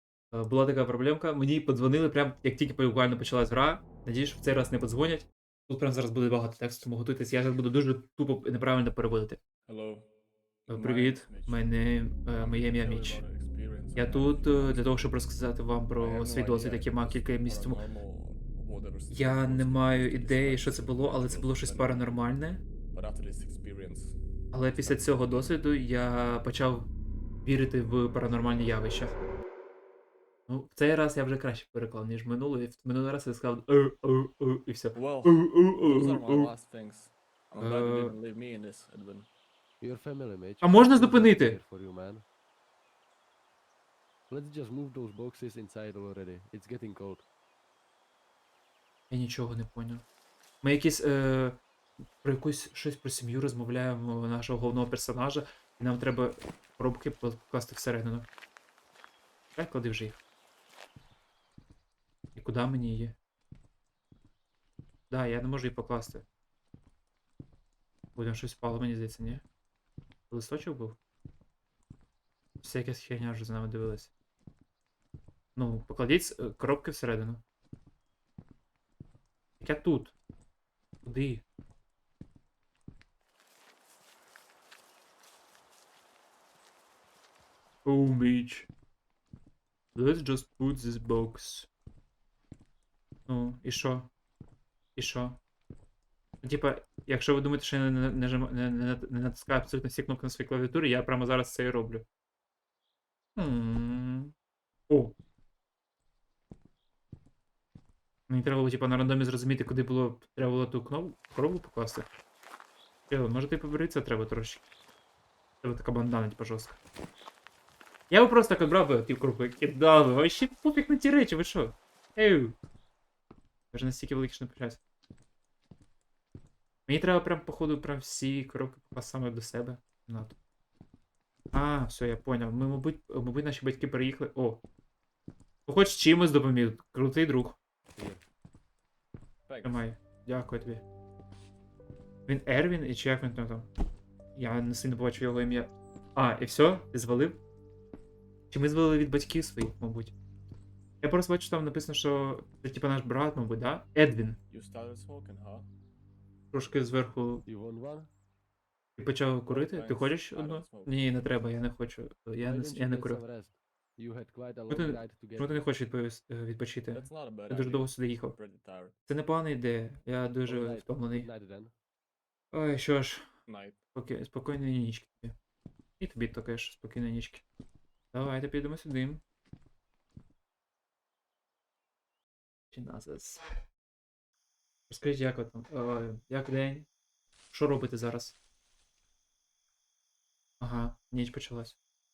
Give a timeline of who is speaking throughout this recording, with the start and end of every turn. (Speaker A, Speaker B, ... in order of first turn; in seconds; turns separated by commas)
Speaker A: 0.3-9.4, Speaker B: 9.7-10.1, Speaker B: 10.7-11.7, Speaker A: 10.7-13.2, Speaker B: 12.3-15.1, Speaker A: 13.9-17.8, Speaker B: 16.0-22.2, Speaker A: 19.1-22.6, Speaker B: 22.9-24.2, Speaker A: 24.5-26.9, Speaker B: 24.9-25.3, Speaker A: 27.4-29.2, Speaker A: 30.5-36.5, Speaker B: 34.9-39.3, Speaker A: 37.6-38.1, Speaker C: 39.8-42.2, Speaker A: 40.6-41.6, Speaker C: 44.3-47.2, Speaker A: 49.1-50.0, Speaker A: 50.6-51.6, Speaker A: 52.2-58.3, Speaker A: 59.5-60.2, Speaker A: 62.3-63.1, Speaker A: 65.1-66.2, Speaker A: 68.2-69.4, Speaker A: 70.3-71.0, Speaker A: 72.6-74.1, Speaker A: 75.5-77.4, Speaker A: 79.6-80.2, Speaker A: 81.0-81.4, Speaker A: 87.8-88.7, Speaker A: 89.9-91.7, Speaker A: 93.3-94.1, Speaker A: 95.0-95.4, Speaker A: 96.4-102.0, Speaker A: 103.3-104.3, Speaker A: 104.9-105.1, Speaker A: 108.3-112.1, Speaker A: 113.1-114.6, Speaker A: 115.6-116.8, Speaker A: 118.1-122.5, Speaker A: 123.7-124.8, Speaker A: 126.9-130.3, Speaker A: 131.5-134.6, Speaker A: 135.7-137.6, Speaker C: 137.9-138.2, Speaker B: 139.5-139.8, Speaker A: 139.6-140.8, Speaker A: 142.2-143.7, Speaker A: 144.3-147.4, Speaker A: 148.5-150.1, Speaker A: 151.0-154.4, Speaker B: 154.5-155.7, Speaker A: 156.5-157.4, Speaker C: 157.4-158.1, Speaker A: 159.0-163.2, Speaker B: 159.4-161.0, Speaker C: 162.4-165.6, Speaker A: 164.7-168.3, Speaker B: 166.9-168.9, Speaker A: 169.1-171.3, Speaker C: 170.4-171.7, Speaker A: 172.5-173.3, Speaker B: 173.4-173.8, Speaker A: 173.9-175.3, Speaker A: 176.0-177.4, Speaker A: 178.1-179.2, Speaker A: 182.7-183.5, Speaker A: 184.9-186.9, Speaker A: 187.5-188.3, Speaker A: 190.6-191.8